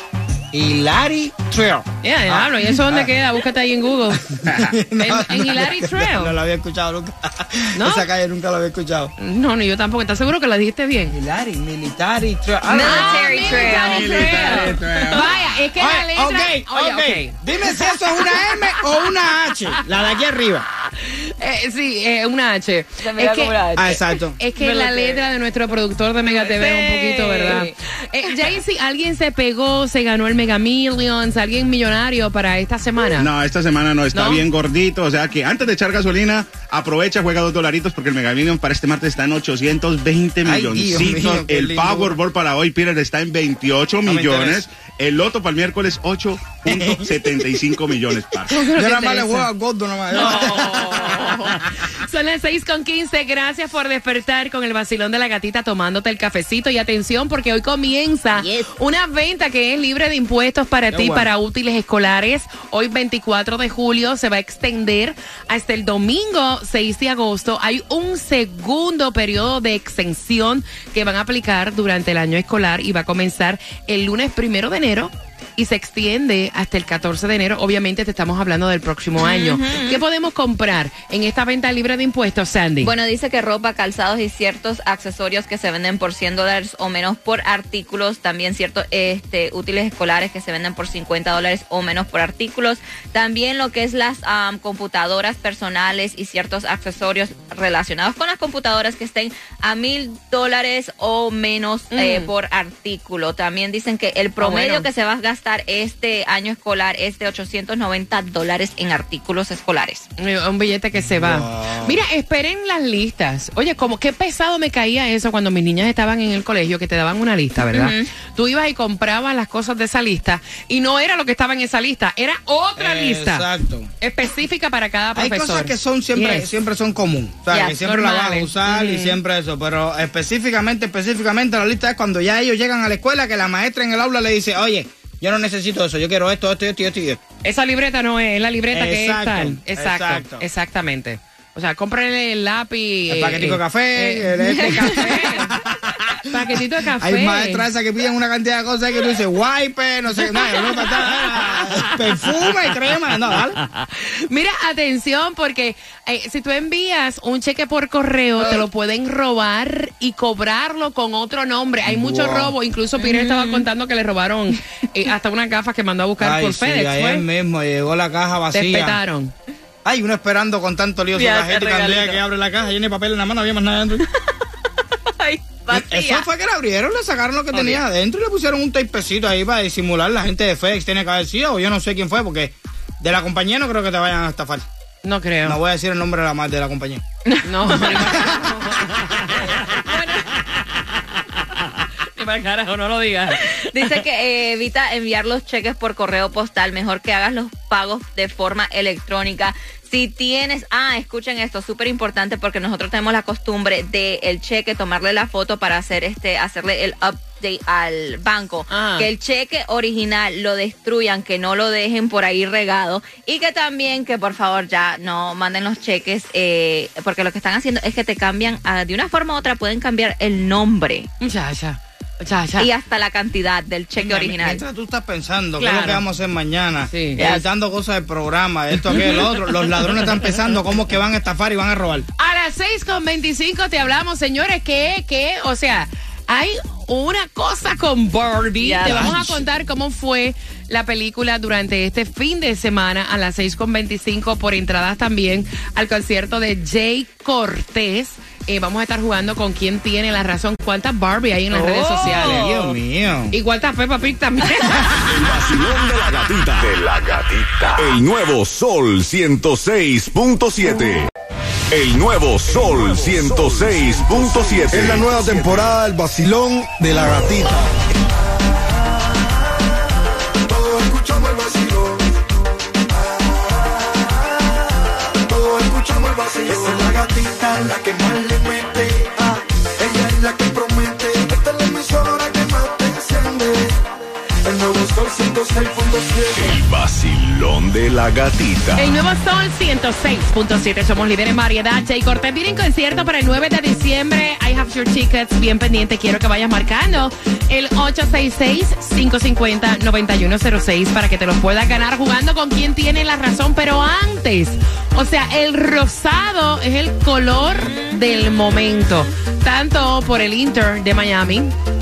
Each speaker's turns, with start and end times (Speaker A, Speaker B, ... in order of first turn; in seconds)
Speaker A: 0.5-3.1, 4.4-9.1, 11.1-13.6, 15.8-20.7, 23.8-24.4, 40.5-42.2, 44.0-44.6, 46.6-47.6, 48.7-51.2, 60.9-61.3, 111.2-112.0, 122.8-123.9, 125.2-137.2, 138.7-140.5, 143.1-146.0, 147.0-153.6, 161.8-162.6, 166.2-169.0, 169.8-174.1, 175.7-184.7, 185.4-187.0, 187.9-189.0, 224.0-232.1, 238.8-239.4, 252.0-253.4
Speaker B: 2.0-4.3, 5.0-6.4, 7.8-8.1, 9.2-11.2, 12.8-18.4, 21.0-33.3, 34.1-34.5, 48.5-49.5, 50.1-82.9, 101.9-102.3, 104.4-104.9, 110.2-123.5, 124.0-126.5, 127.8-129.2, 137.4-145.5, 146.2-147.7, 150.3-152.4, 153.8-167.2, 168.5-169.3, 185.0-185.6, 187.4-189.8, 192.0-193.6, 208.7-209.1, 221.2-222.7, 225.6-226.0, 226.9-227.2, 232.2-252.5, 253.3-255.2, 288.8-311.6
Speaker C: 12.7-14.8, 23.0-24.0, 24.6-25.2, 26.2-27.8, 50.2-51.5, 58.4-58.7, 79.2-80.0, 82.8-110.1, 117.7-118.1, 127.5-127.8, 144.5-145.5, 163.0-163.7, 171.1-172.2, 175.2-176.3, 177.5-177.8, 187.3-188.1, 189.7-190.3, 193.7-221.1, 222.6-224.6, 227.2-227.5, 238.6-239.2, 251.5-252.8, 307.5-308.0
Speaker D: 13.5-15.6, 33.2-48.5
Speaker E: 255.1-261.1, 261.7-265.7, 286.3-289.0
Speaker F: 262.6-267.7, 270.5-272.1, 272.9-274.4, 275.2-283.8, 284.4-286.6